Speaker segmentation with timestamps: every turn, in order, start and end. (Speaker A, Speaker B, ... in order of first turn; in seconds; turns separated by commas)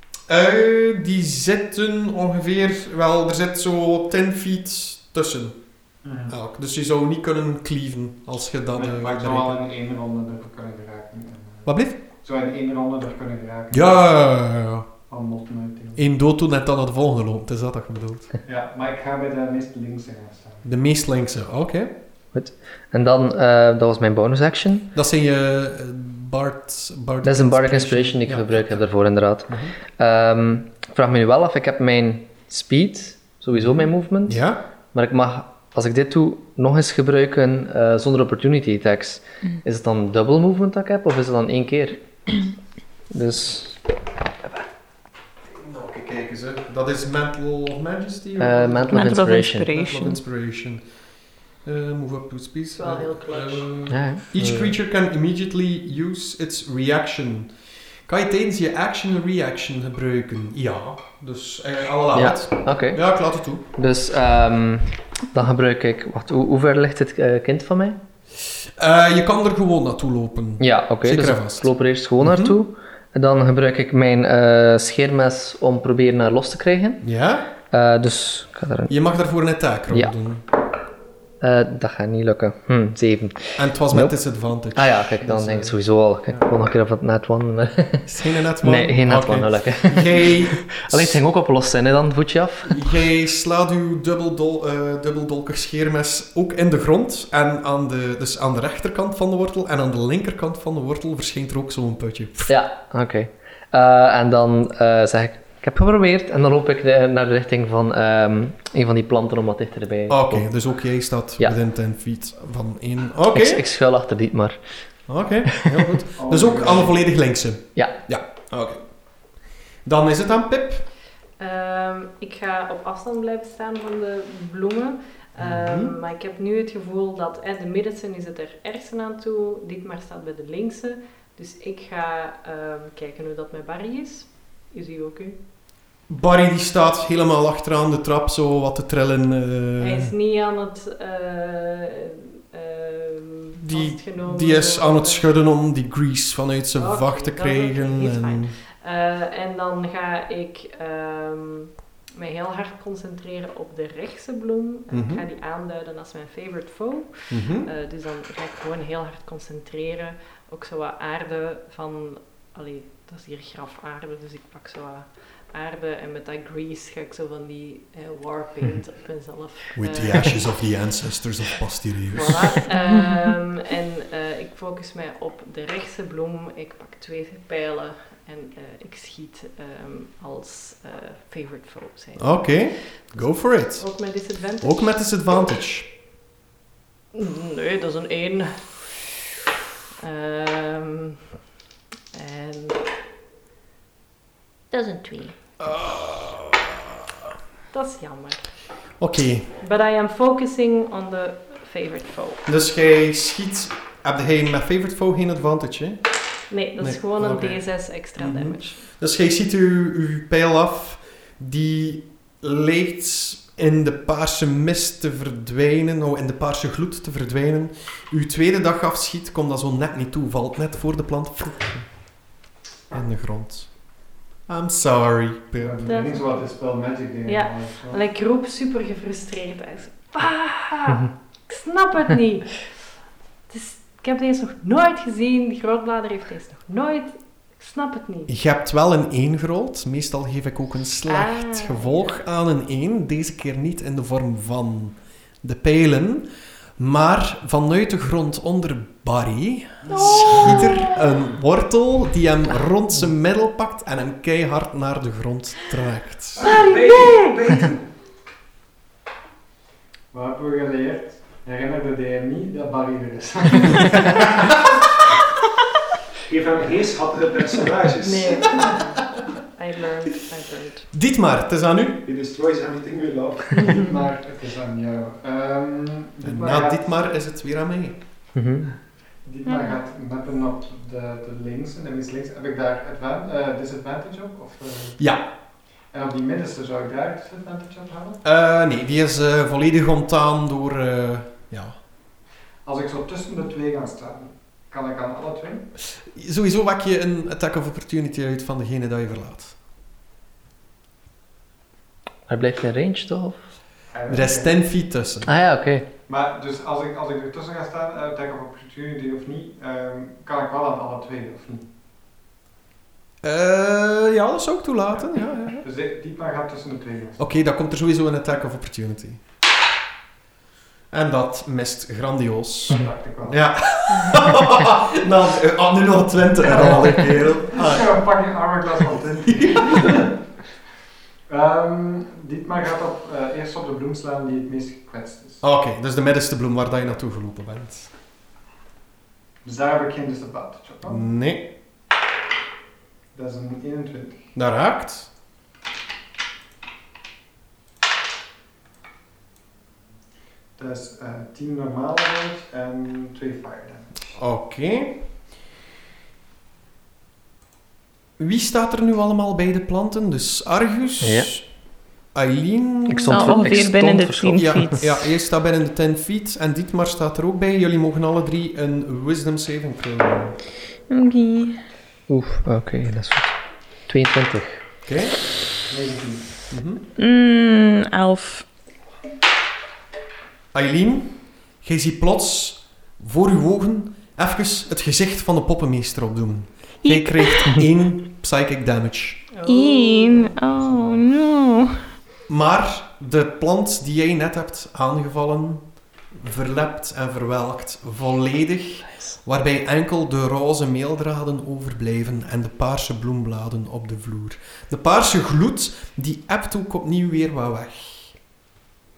Speaker A: 0.3-5.6, Speaker B: 6.0-6.3, Speaker A: 6.3-9.6, Speaker B: 8.7-14.2, Speaker A: 11.6-12.0, Speaker A: 13.7-14.9, Speaker B: 15.1-16.0, Speaker A: 15.9-18.3, Speaker B: 18.4-20.6, Speaker A: 20.6-21.9, Speaker C: 22.3-24.9, Speaker A: 24.9-28.8, Speaker C: 27.2-42.3, Speaker A: 29.5-29.7, Speaker A: 33.5-34.6, Speaker C: 43.1-43.8, Speaker A: 45.5-50.9, Speaker C: 48.4-49.7, Speaker D: 48.9-50.2, Speaker A: 51.6-63.6, Speaker E: 52.8-53.8, Speaker C: 53.9-54.8, Speaker C: 62.1-68.0, Speaker A: 68.8-72.6, Speaker C: 70.6-77.0, Speaker A: 77.0-77.5, Speaker C: 77.6-78.9, Speaker A: 78.9-80.4, Speaker C: 81.4-84.2, Speaker A: 83.6-85.7, Speaker C: 84.7-88.1, Speaker A: 88.0-91.2, Speaker C: 88.6-92.9, Speaker A: 92.7-102.5, Speaker C: 102.5-110.5, Speaker A: 110.1-113.6, Speaker C: 113.3-114.6, Speaker A: 115.1-118.8, Speaker B: 116.1-117.0, Speaker A: 119.8-120.8, Speaker E: 121.4-135.4, Speaker A: 125.4-125.9, Speaker A: 136.1-140.1, Speaker E: 139.8-145.3, Speaker A: 143.6-148.5, Speaker E: 146.7-170.6, Speaker A: 154.9-155.2, Speaker A: 157.3-157.7, Speaker A: 169.7-172.7, Speaker E: 172.1-185.2, Speaker A: 182.2-185.9, Speaker E: 187.1-189.0, Speaker E: 190.0-191.2, Speaker E: 192.1-192.8, Speaker E: 194.7-195.3, Speaker A: 195.6-196.7, Speaker E: 197.7-198.5, Speaker A: 199.0-199.5, Speaker E: 199.6-202.5, Speaker A: 202.4-206.1, Speaker E: 206.5-208.9, Speaker A: 206.8-221.9, Speaker A: 222.9-223.7, Speaker A: 224.5-225.8, Speaker B: 225.6-228.0, Speaker E: 225.8-226.5, Speaker E: 227.2-232.7, Speaker E: 233.5-238.3, Speaker A: 238.3-256.5, Speaker E: 241.1-242.2, Speaker E: 249.9-251.2, Speaker E: 256.4-257.6, Speaker F: 256.4-257.8, Speaker B: 260.1-264.3, Speaker F: 266.3-268.7, Speaker E: 268.0-270.9, Speaker A: 270.9-272.0, Speaker F: 272.0-273.8, Speaker B: 273.7-277.0, Speaker A: 276.2-278.0, Speaker C: 278.3-278.7, Speaker B: 279.2-285.1, Speaker D: 279.4-279.7, Speaker A: 285.0-285.3, Speaker B: 285.9-288.2, Speaker A: 288.2-291.8, Speaker B: 292.6-295.7, Speaker A: 295.9-299.6, Speaker C: 302.3-303.4, Speaker B: 303.9-304.6, Speaker A: 304.1-305.3, Speaker C: 305.2-305.9, Speaker B: 306.1-311.7, Speaker A: 313.2-315.6, Speaker B: 315.6-317.2, Speaker A: 317.2-319.2, Speaker A: 320.9-328.1, Speaker B: 322.7-323.4, Speaker B: 326.5-330.1, Speaker A: 329.2-330.0, Speaker B: 331.3-335.4, Speaker A: 335.4-337.9, Speaker B: 339.4-341.1, Speaker A: 340.8-341.5, Speaker B: 343.1-344.2, Speaker A: 344.3-345.1, Speaker B: 350.6-354.1, Speaker A: 354.1-355.0, Speaker A: 358.2-361.5, Speaker C: 361.0-361.3, Speaker A: 362.1-370.4, Speaker C: 362.9-364.8, Speaker D: 363.1-365.1, Speaker D: 370.9-371.6, Speaker C: 372.1-374.6, Speaker A: 374.8-375.1, Speaker B: 375.7-376.4, Speaker A: 376.5-376.8, Speaker D: 377.0-378.4, Speaker A: 380.5-389.2, Speaker D: 386.8-387.6, Speaker E: 389.3-391.1, Speaker D: 389.4-391.9, Speaker A: 392.3-408.2